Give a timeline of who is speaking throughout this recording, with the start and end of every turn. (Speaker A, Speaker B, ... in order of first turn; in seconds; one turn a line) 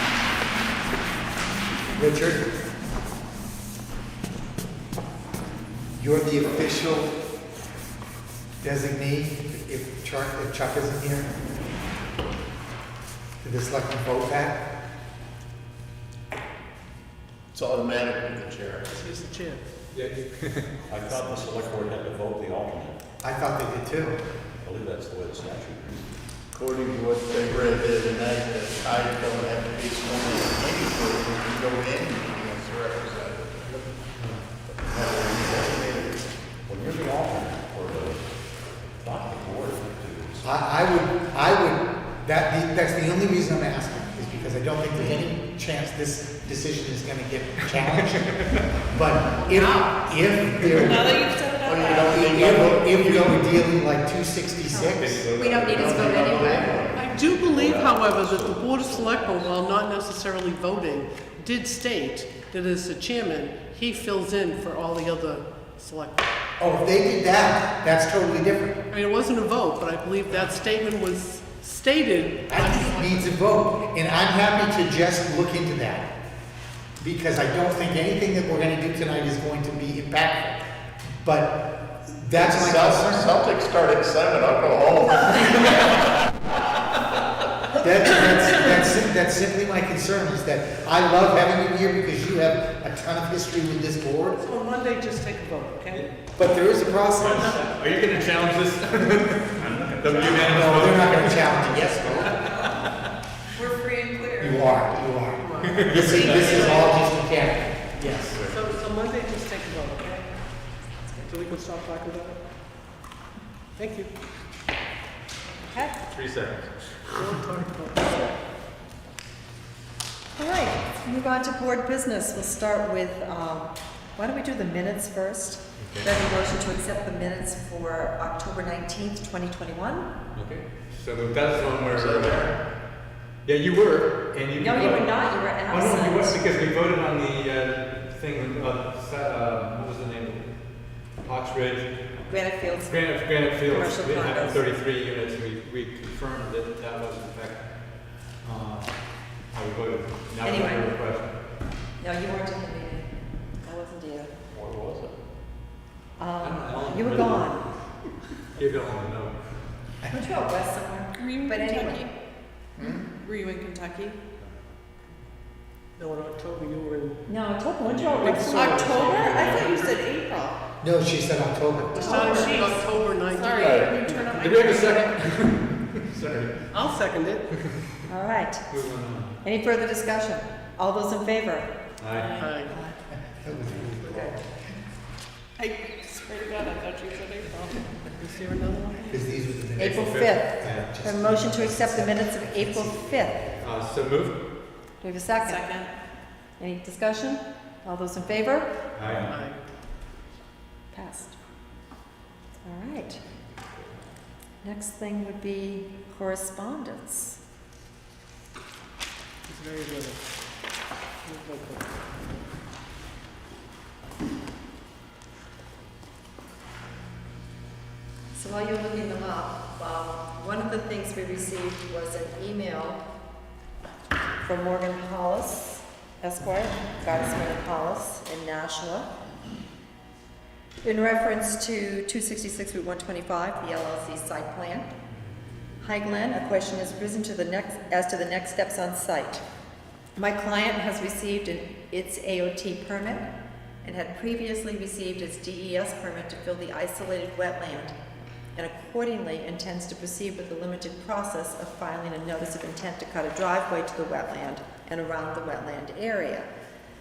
Speaker A: 1.9-2.5
Speaker A: 6.0-7.1
Speaker A: 8.6-11.3
Speaker A: 13.4-14.6
Speaker B: 17.5-18.9
Speaker C: 18.9-19.6
Speaker D: 19.9-20.9
Speaker E: 20.9-23.0
Speaker A: 23.2-24.2
Speaker E: 24.6-26.2
Speaker B: 26.5-33.9
Speaker D: 34.1-34.4
Speaker B: 34.8-36.3
Speaker E: 36.7-40.6
Speaker A: 40.4-55.3
Speaker D: 47.9-48.6
Speaker C: 49.5-49.9
Speaker F: 50.7-52.4
Speaker B: 51.6-53.4
Speaker G: 54.7-56.8
Speaker D: 54.8-56.5
Speaker B: 55.6-57.1
Speaker C: 56.9-66.3
Speaker E: 57.0-59.5
Speaker A: 66.6-68.8
Speaker C: 68.9-73.3
Speaker A: 72.5-76.1
Speaker A: 77.0-80.6
Speaker A: 81.2-83.4
Speaker B: 82.3-86.1
Speaker A: 87.8-94.4
Speaker C: 94.4-96.1
Speaker A: 96.3-97.6
Speaker D: 97.1-101.5
Speaker E: 99.7-100.5
Speaker A: 100.2-102.5
Speaker F: 101.9-102.9
Speaker F: 103.5-104.9
Speaker A: 104.4-108.3
Speaker C: 105.3-106.9
Speaker D: 105.7-106.6
Speaker F: 106.1-107.0
Speaker C: 108.3-110.3
Speaker G: 111.0-111.3
Speaker C: 111.3-112.4
Speaker C: 113.8-114.1
Speaker G: 115.7-116.0
Speaker D: 116.1-117.1
Speaker C: 117.1-118.3
Speaker G: 120.4-130.1
Speaker D: 125.8-126.1
Speaker D: 130.3-132.5
Speaker B: 131.9-132.6
Speaker D: 133.4-141.9
Speaker G: 134.6-136.4
Speaker G: 142.3-143.0
Speaker D: 142.7-147.7
Speaker G: 143.7-144.6
Speaker D: 148.4-151.4
Speaker G: 150.4-150.9
Speaker G: 152.0-154.3
Speaker E: 154.5-155.1
Speaker G: 156.2-157.7
Speaker D: 156.4-157.6
Speaker D: 158.6-159.3
Speaker A: 160.0-160.3
Speaker G: 160.1-162.1
Speaker F: 161.1-162.1
Speaker F: 162.8-164.2
Speaker C: 166.0-167.2
Speaker G: 167.3-169.1
Speaker D: 167.8-169.8
Speaker C: 168.2-170.0
Speaker F: 168.4-170.6
Speaker A: 170.8-172.6
Speaker C: 171.9-174.5
Speaker F: 171.9-175.2
Speaker G: 172.2-172.6
Speaker B: 173.6-173.9
Speaker D: 174.3-176.8
Speaker C: 176.7-177.5
Speaker G: 178.1-178.7
Speaker D: 178.7-179.4
Speaker G: 179.4-181.7
Speaker D: 182.0-182.4
Speaker F: 182.1-182.6
Speaker C: 182.4-182.7
Speaker G: 182.7-183.0
Speaker A: 183.3-184.5
Speaker F: 185.6-188.0
Speaker C: 188.1-189.2
Speaker A: 189.1-193.7
Speaker G: 189.8-193.4
Speaker D: 189.8-191.3
Speaker D: 193.6-194.4
Speaker G: 195.0-195.9
Speaker F: 195.4-195.9
Speaker G: 196.6-198.7
Speaker D: 198.9-199.3
Speaker C: 199.3-199.6
Speaker G: 200.9-201.4
Speaker G: 202.7-203.2
Speaker G: 204.6-207.4
Speaker C: 209.5-210.2
Speaker C: 211.2-211.9
Speaker G: 218.3-223.0
Speaker G: 224.4-229.1
Speaker G: 230.8-234.9
Speaker G: 235.8-239.4
Speaker G: 240.2-243.3
Speaker G: 243.8-247.9
Speaker G: 248.6-256.5